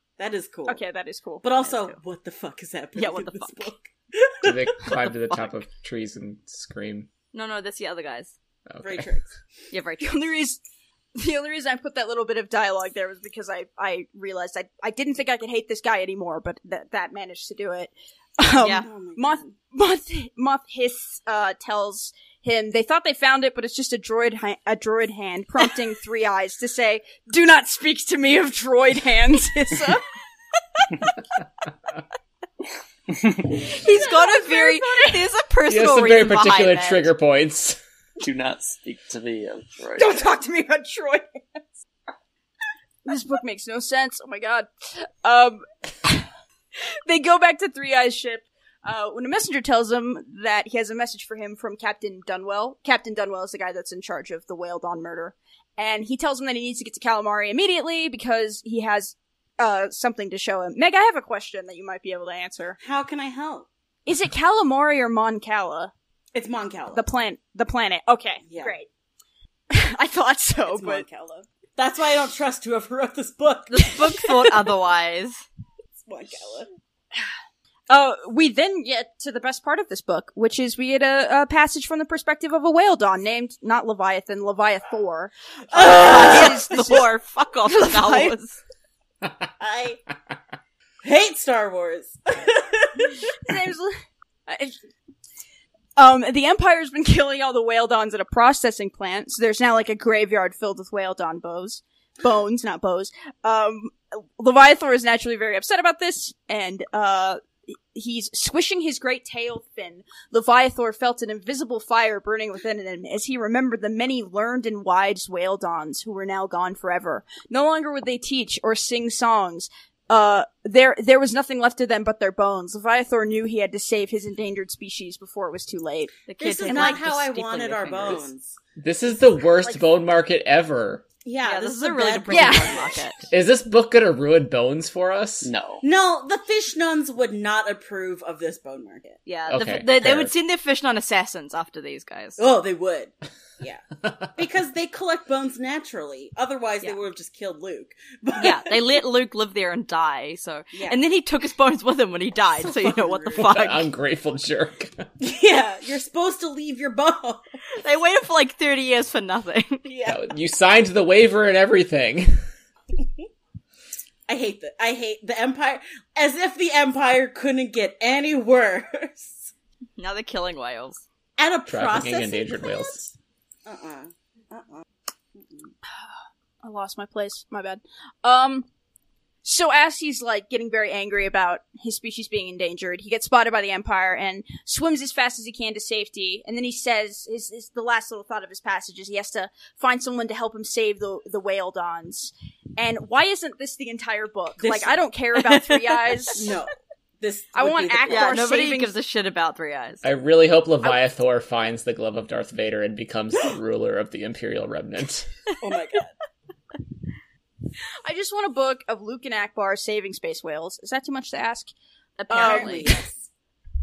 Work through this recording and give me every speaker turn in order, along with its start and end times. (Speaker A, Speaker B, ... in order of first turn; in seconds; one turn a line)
Speaker A: 0.2-0.8
Speaker B: 0.7-1.4
Speaker A: 1.4-5.0
Speaker C: 1.6-1.9
Speaker C: 3.0-3.5
Speaker D: 4.4-7.1
Speaker C: 7.3-8.3
Speaker D: 8.7-9.0
Speaker A: 8.8-9.3
Speaker C: 9.7-10.2
Speaker B: 10.0-10.6
Speaker B: 11.2-31.1
Speaker C: 18.6-18.9
Speaker A: 18.7-19.5
Speaker B: 33.5-35.3
Speaker C: 33.6-37.1
Speaker D: 35.6-37.8
Speaker E: 38.2-40.3
Speaker B: 40.0-41.6
Speaker B: 43.0-62.8
Speaker A: 62.8-63.7
Speaker B: 64.0-65.9
Speaker A: 66.3-67.0
Speaker B: 66.9-68.9
Speaker A: 68.5-68.7
Speaker B: 69.7-71.0
Speaker A: 70.6-74.0
Speaker C: 73.7-75.4
Speaker A: 76.0-76.7
Speaker B: 77.9-87.1
Speaker A: 85.7-86.6
Speaker C: 85.8-88.6
Speaker B: 87.6-88.3
Speaker A: 89.6-90.0
Speaker A: 91.0-93.2
Speaker B: 93.3-94.8
Speaker B: 96.0-127.0
Speaker C: 126.2-128.3
Speaker A: 126.4-128.6
Speaker D: 128.8-131.0
Speaker A: 131.2-133.0
Speaker C: 131.4-133.2
Speaker B: 132.3-132.8
Speaker D: 133.3-135.5
Speaker E: 135.4-135.8
Speaker A: 135.8-139.2
Speaker C: 139.2-142.4
Speaker D: 139.5-140.3
Speaker A: 142.4-143.8
Speaker A: 144.3-148.9
Speaker C: 148.4-153.8
Speaker A: 150.7-151.0
Speaker A: 152.5-153.6
Speaker D: 153.4-155.0
Speaker A: 155.2-157.4
Speaker C: 157.7-159.8
Speaker A: 159.8-160.2
Speaker D: 160.1-162.4
Speaker A: 164.3-169.5
Speaker C: 170.0-171.0
Speaker A: 171.4-173.1
Speaker D: 171.7-173.0
Speaker A: 173.7-175.7
Speaker B: 176.6-178.7
Speaker B: 179.4-196.5
Speaker A: 194.6-195.0
Speaker C: 195.5-196.2
Speaker A: 196.3-198.4
Speaker B: 197.5-198.9
Speaker C: 198.1-200.0
Speaker D: 200.0-205.3
Speaker A: 205.6-206.1
Speaker B: 208.0-211.7
Speaker C: 212.2-212.9
Speaker B: 212.3-213.0
Speaker A: 212.3-213.3